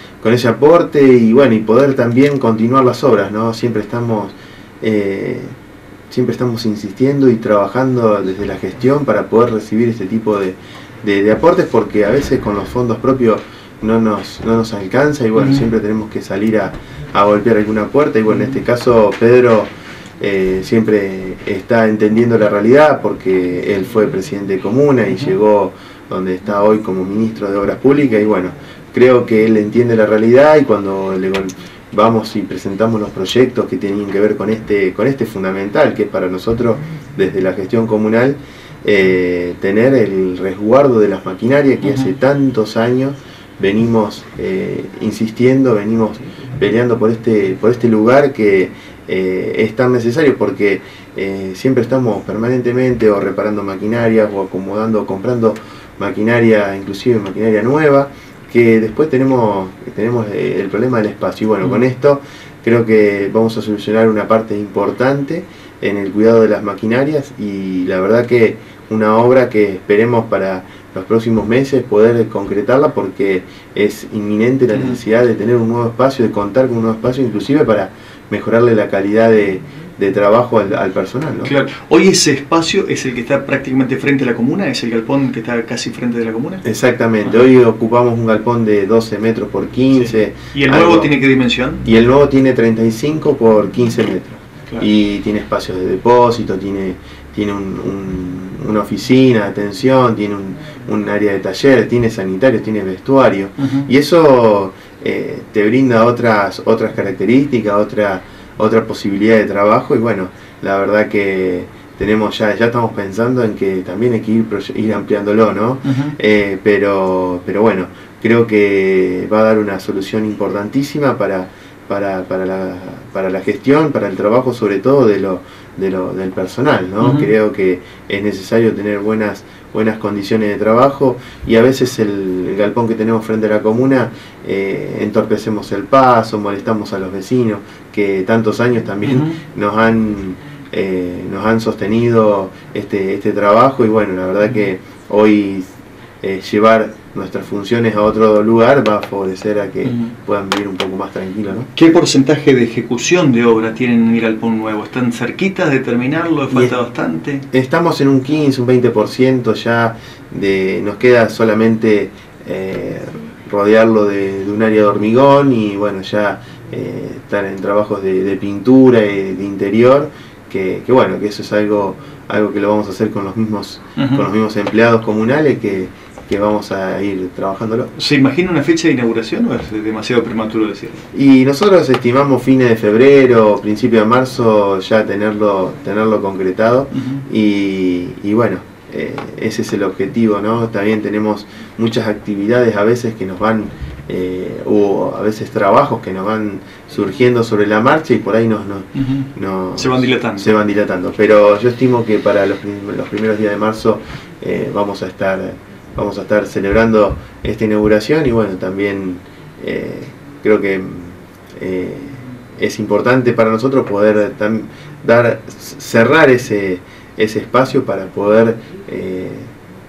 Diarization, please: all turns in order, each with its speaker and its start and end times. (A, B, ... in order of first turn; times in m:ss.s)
0:00.2-0:05.6 A
0:06.1-1:21.5 A
1:21.4-1:26.6 B
1:26.6-1:31.1 A
1:29.9-1:31.8 B
1:31.8-2:25.7 A
1:43.6-1:43.9 B
1:55.8-1:56.2 B
2:07.0-2:07.3 B
2:19.0-2:19.4 B
2:26.2-2:31.7 A
2:31.7-2:37.5 B
2:37.5-2:57.9 A
2:54.0-2:54.2 B
2:58.0-3:01.1 B
3:01.1-3:39.5 A
3:06.9-3:07.2 B
3:19.0-3:20.5 B